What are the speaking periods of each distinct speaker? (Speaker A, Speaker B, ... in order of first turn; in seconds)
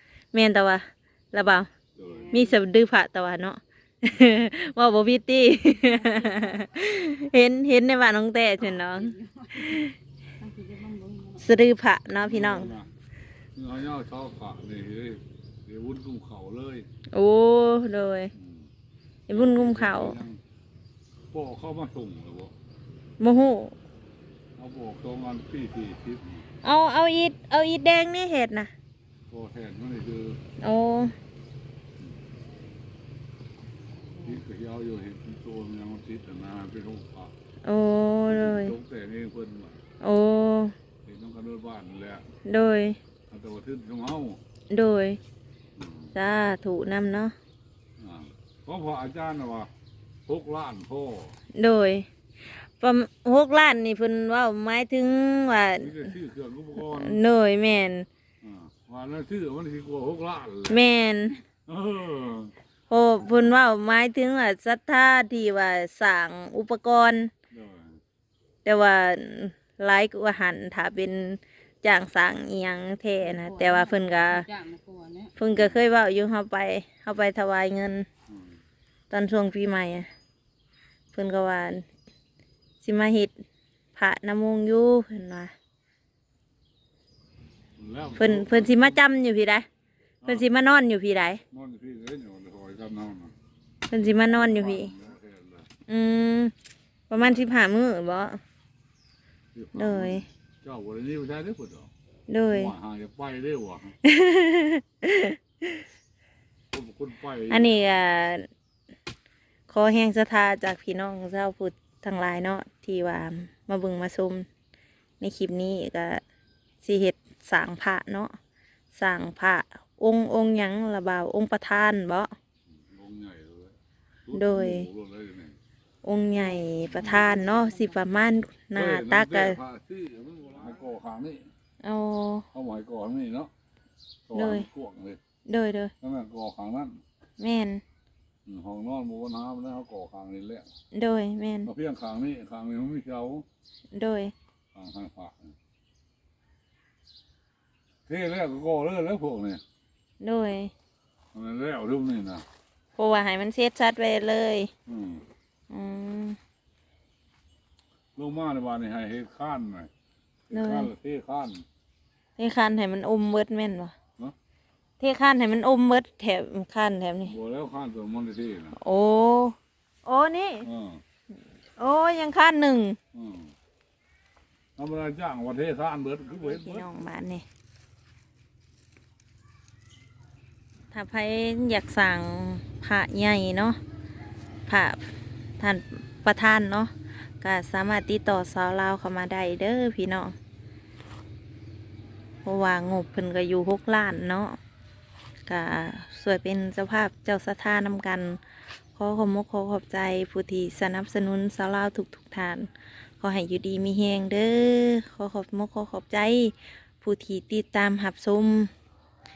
Speaker A: 0.3-1.7, 2.3-9.9, 11.4-12.7, 17.1-18.3, 19.3-20.2, 23.2-23.8, 26.6-28.7, 30.6-31.1, 37.6-38.7, 40.0-40.7, 42.5-43.0, 44.7-45.2, 46.1-47.4, 51.6-52.1, 52.7-55.9, 56.9-58.1, 60.7-61.4, 62.9-67.3, 68.7-74.5, 75.4-78.1, 79.1-80.1, 81.1-81.8, 82.8-83.3, 84.0-85.5, 88.2-89.7, 90.3-91.4, 93.9-94.9, 95.9-96.5, 97.1-98.4, 99.8-100.3, 102.3-102.7, 104.0-105.8, 107.5-108.5, 109.7-114.5, 115.2-116.2, 116.8-118.4, 119.0-122.3, 124.3-124.9, 126.0-129.6, 131.8-132.4, 134.3-134.7, 135.5-135.9, 137.4-137.8, 140.9-141.7, 143.9-144.3, 150.2-150.7, 153.0-154.7, 155.7-156.4, 160.5-160.9, 162.4-163.9, 165.0-167.3, 168.8-170.7, 171.8-173.0, 176.4-177.4, 180.9-183.8, 184.7-185.1, 185.6-190.3, 192.4-194.6, 195.5-198.4, 198.9-202.7, 203.2-208.7
Speaker B: 2.0-2.4, 12.2-12.9, 13.6-16.9, 18.3-18.7, 19.3-20.4, 21.3-22.5, 24.6-26.4, 29.3-30.4, 34.2-37.3, 38.3-39.8, 41.0-42.2, 43.3-44.4, 45.8-46.1, 48.0-49.7, 50.3-51.4, 55.8-57.2, 58.4-60.8, 61.7-62.5, 67.5-68.0, 75.5-75.8, 78.3-78.6, 87.8-89.0, 91.5-93.3, 94.2-95.7, 99.5-101.9, 102.5-103.9, 106.7-107.8, 122.7-125.5, 128.7-131.5, 132.5-133.5, 134.3-135.2, 136.0-137.0, 138.5-140.7, 141.6-143.4, 144.8-145.5, 148.1-149.6, 151.3-152.4, 154.9-155.2, 158.2-159.9, 160.5-161.6, 167.2-168.8, 170.6-171.0, 173.1-173.5, 174.8-176.8
Speaker C: 2.2-2.5, 8.9-9.9, 10.4-11.5, 73.2-75.3